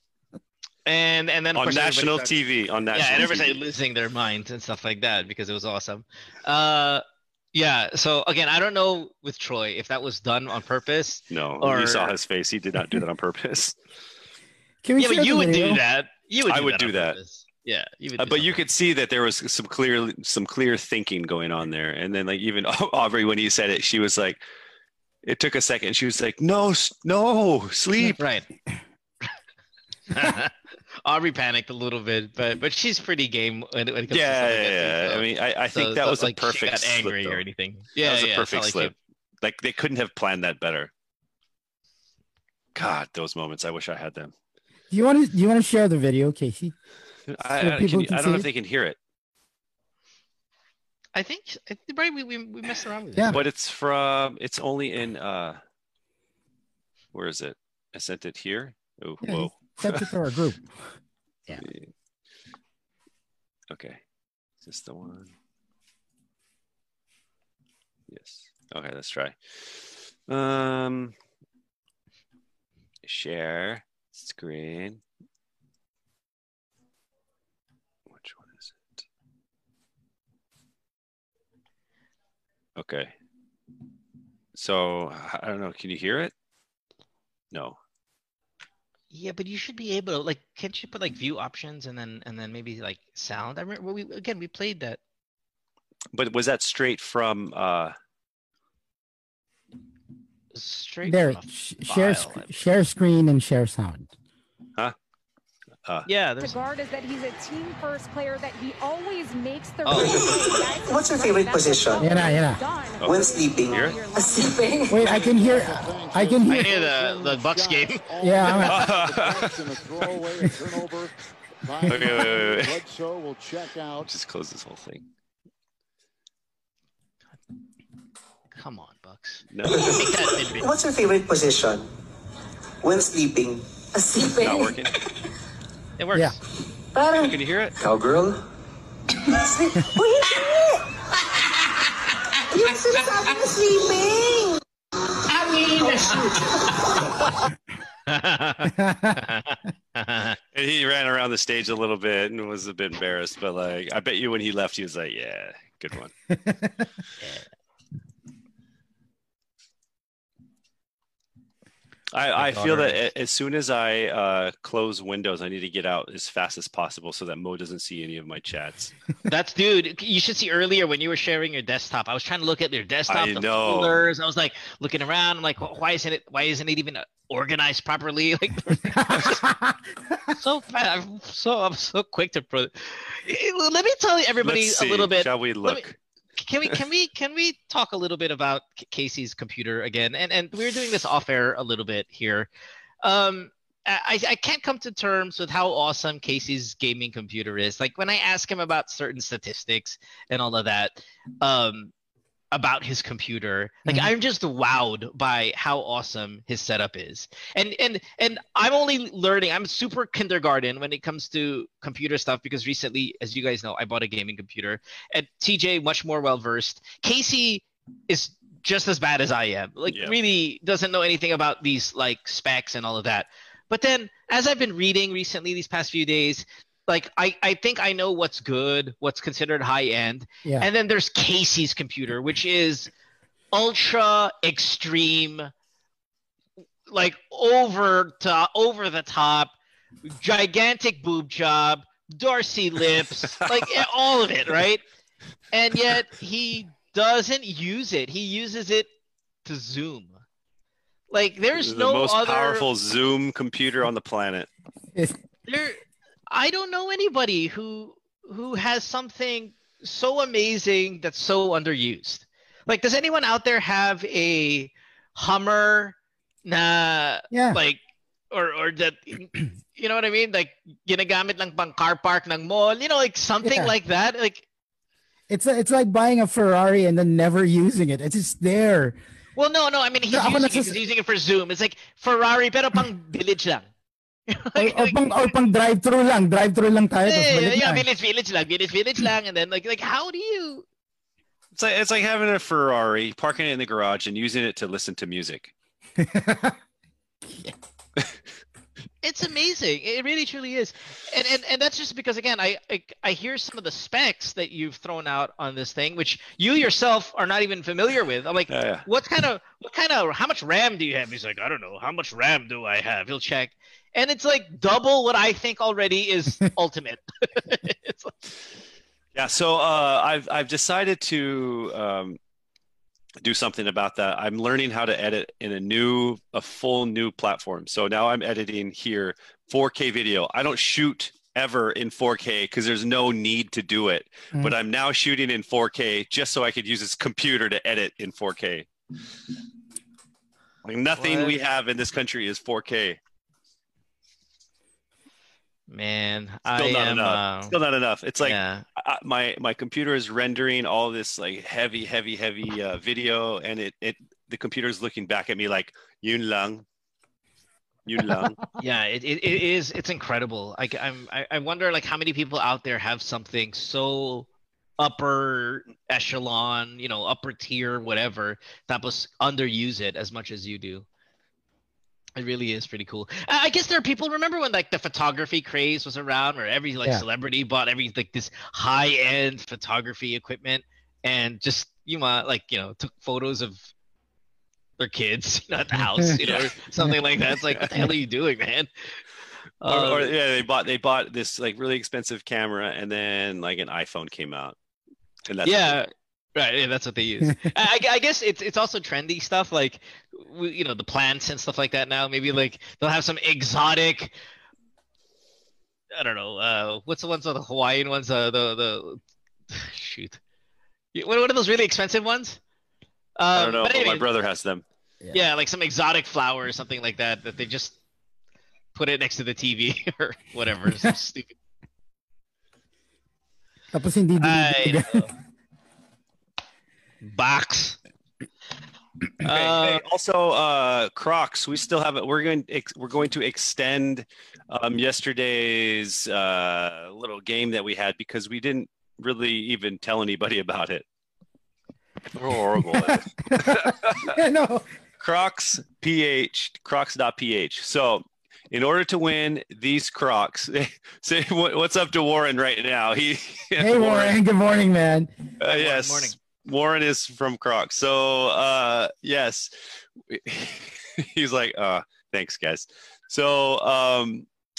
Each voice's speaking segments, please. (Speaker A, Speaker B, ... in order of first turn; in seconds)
Speaker A: 0.9-2.4, 2.9-12.2, 15.0-18.6, 28.0-28.5, 30.1-30.5, 31.1-38.9, 51.1-53.4, 89.1-95.0, 100.5-102.6, 106.1-106.6, 109.8-110.5, 116.5-118.1, 128.5-130.7, 136.0-136.4, 148.1-150.4, 157.2-157.5, 162.4-163.0, 169.3-179.4, 180.4-185.8, 186.4-192.5, 193.0-201.9, 202.5-232.9, 233.5-235.5, 236.9-239.5, 240.1-244.8, 245.5-248.9, 249.4-250.2, 251.1-252.7, 255.5-274.4, 279.4-283.7, 284.3-285.3, 287.0-290.6, 299.0-318.1, 340.9-341.4, 345.7-347.6, 348.2-348.7, 358.6-370.9, 372.2-383.7, 384.8-388.7, 389.6-390.1, 395.4-404.1, 405.9-410.2, 410.9-412.4, 413.2-414.1, 415.1-417.8, 418.8-421.4, 424.2-425.1, 427.0-427.8, 429.2-429.9, 455.4-456.2
Speaker B: 1.6-3.6, 11.3-13.8, 16.5-17.2, 18.2-24.4, 25.2-28.2, 34.1-37.4, 38.0-40.9, 42.8-44.3, 47.3-49.0, 53.3-55.6, 57.1-60.1, 61.6-61.9, 63.7-64.0, 64.6-65.3, 68.1-71.2, 73.0-75.0, 78.1-79.0, 82.8-83.1, 84.5-86.3, 87.5-87.8, 96.1-98.0, 113.0-114.0, 118.7-119.6, 121.9-122.8, 124.0-125.1, 129.5-130.0, 134.4-134.9, 137.2-137.8, 150.5-156.1, 162.1-168.9, 173.1-174.0, 184.4-186.0, 219.9-220.2, 251.6-254.5, 291.5-295.5, 308.5-308.9, 319.1-322.2, 323.2-338.7, 340.6-343.0, 346.5-356.6, 357.9-358.4, 386.2-386.5, 389.7-394.6, 395.3-395.8, 413.4-414.6, 429.3-440.9, 442.1-444.1, 445.0-454.2, 455.4-459.5, 460.1-464.3
Speaker C: 14.8-15.8, 44.9-46.8, 47.6-48.5, 59.2-60.7, 101.0-104.1, 112.0-112.6, 114.9-116.8, 118.2-118.9, 121.9-122.2, 148.8-149.2, 156.3-156.8, 178.9-179.8, 267.3-267.6, 273.4-273.7, 275.3-279.0, 280.1-280.8, 284.6-287.9, 296.0-296.6, 358.0-358.5, 423.7-425.1, 442.6-444.7, 453.6-455.3
Speaker D: 106.4-114.7
Speaker E: 110.0-112.1, 113.1-115.0, 130.8-131.8, 132.9-134.5, 139.5-140.8, 142.5-144.5
Speaker F: 115.0-124.1